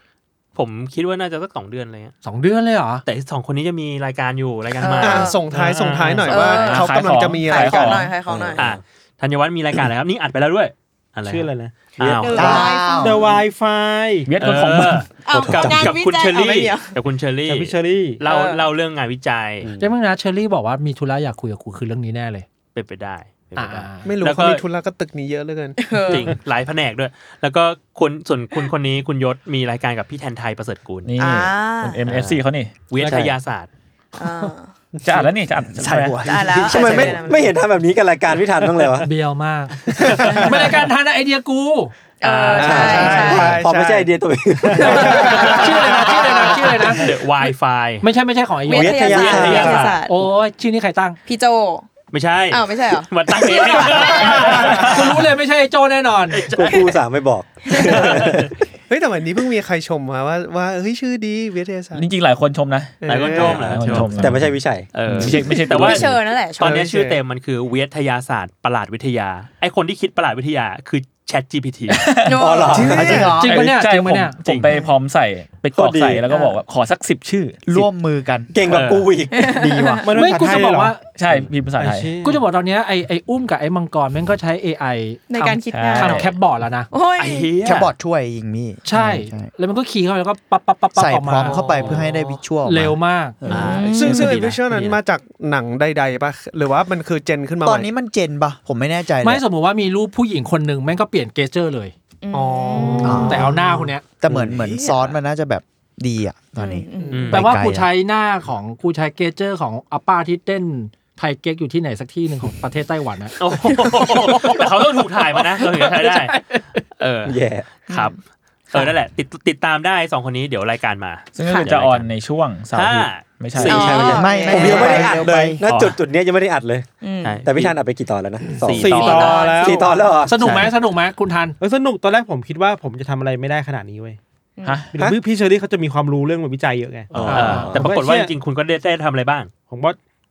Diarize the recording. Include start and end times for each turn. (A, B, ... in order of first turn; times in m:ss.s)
0:00.6-0:02.2 A
0:02.2-0:03.0 B
0:03.0-0:06.8 A
0:04.8-0:05.5 C
0:05.0-0:08.0 D
0:06.3-0:08.7 C
0:06.6-0:08.2 E
0:08.3-0:08.8 F
0:08.6-0:12.6 A
0:11.2-0:14.4 G
0:12.0-0:13.4 C
0:12.3-0:13.4 H
0:14.3-0:15.1 E
0:14.4-0:19.7 A
0:15.2-0:17.0 C
0:15.3-0:16.0 F
0:17.4-0:18.2 G
0:18.2-0:18.7 C
0:19.6-0:19.9 F
0:19.8-0:22.5 B
0:22.8-0:24.6 A
0:23.6-0:24.1 B
0:24.0-0:25.8 D
0:25.8-0:26.4 C
0:26.1-0:31.1 A
0:31.1-0:32.8 E
0:31.2-0:32.1 C
0:32.1-0:33.7 A
0:33.0-0:33.3 B
0:33.0-0:33.4 F
0:34.2-0:34.7 C
0:35.0-0:35.3 F
0:35.0-0:36.5 E
0:35.7-0:37.2 H
0:36.2-0:37.6 C
0:36.5-0:39.1 F
0:39.0-0:41.9 B
0:39.9-0:40.5 F
0:40.1-0:40.8 C
0:42.2-0:43.6 C
0:42.2-0:43.5 A
0:42.6-0:47.1 F
0:42.9-0:44.1 D
0:43.2-0:43.5 H
0:44.7-0:45.2 H
0:44.8-0:47.1 B
0:45.2-0:45.5 A
0:46.7-0:48.0 A
0:48.0-0:49.4 B
0:48.7-0:50.2 C
0:48.7-0:50.0 F
0:49.1-0:50.0 A
0:50.0-0:51.2 B
0:51.3-0:51.9 C
0:52.1-0:55.3 A
0:52.5-0:54.9 C
0:53.8-0:56.4 B
0:56.3-0:56.8 A
0:56.6-0:58.4 F
0:56.6-0:56.9 C
0:57.7-0:58.0 C
0:57.7-0:58.5 A
0:58.9-1:02.1 D
1:01.9-1:06.1 E
1:03.0-1:04.1 D
1:03.0-1:04.4 A
1:04.2-1:04.9 F
1:04.9-1:12.0 A
1:05.2-1:06.8 C
1:06.6-1:07.2 D
1:11.9-1:12.4 E
1:12.2-1:13.3 C
1:12.4-1:13.3 F
1:12.7-1:13.8 H
1:12.8-1:13.3 D
1:13.3-1:17.8 E
1:13.4-1:14.4 B
1:14.7-1:14.9 C
1:15.8-1:16.3 F
1:16.3-1:16.6 C
1:17.7-1:18.5 H
1:18.5-1:20.1 F
1:18.6-1:19.1 A
1:19.3-1:20.1 C
1:20.0-1:21.0 G
1:20.1-1:21.0 B
1:21.2-1:22.1 E
1:21.8-1:22.4 G
1:22.2-1:26.9 B
1:25.3-1:26.3 C
1:25.7-1:26.3 E
1:26.9-1:27.6 C
1:27.2-1:27.9 A
1:27.6-1:29.5 H
1:28.8-1:31.6 B
1:31.0-1:33.8 H
1:31.4-1:32.4 A
1:32.6-1:33.4 B
1:33.5-1:34.4 C
1:33.5-1:35.0 A
1:34.0-1:37.9 D
1:37.6-1:39.4 H
1:39.2-1:41.9 B
1:42.2-1:43.5 C
1:42.4-1:45.2 D
1:42.8-1:44.0 B
1:43.0-1:43.6 H
1:44.2-1:47.9 H
1:46.6-1:47.3 C
1:47.1-1:47.5 A
1:47.3-1:54.6 B
1:53.4-1:56.4 A
1:55.6-1:56.8 B
1:57.0-1:58.2 A
1:57.3-1:57.7 F
1:57.9-1:58.2 C
1:58.7-2:02.1 A
2:01.4-2:04.2 E
2:01.4-2:01.8 C
2:02.7-2:06.0 A
2:03.6-2:05.3 C
2:03.6-2:06.9 F
2:04.2-2:05.6 H
2:07.0-2:07.5 C
2:07.2-2:07.8 A
2:07.4-2:10.6 F
2:08.6-2:09.6 A
2:08.7-2:10.1 G
2:08.8-2:10.1 C
2:10.3-2:11.6 B
2:10.4-2:10.7 E
2:11.6-2:14.2 G
2:14.6-2:14.8 C
2:14.6-2:14.9 E
2:14.9-2:18.3 G
2:17.1-2:17.9 F
2:17.1-2:19.5 A
2:17.3-2:17.7 B
2:19.7-2:20.0 G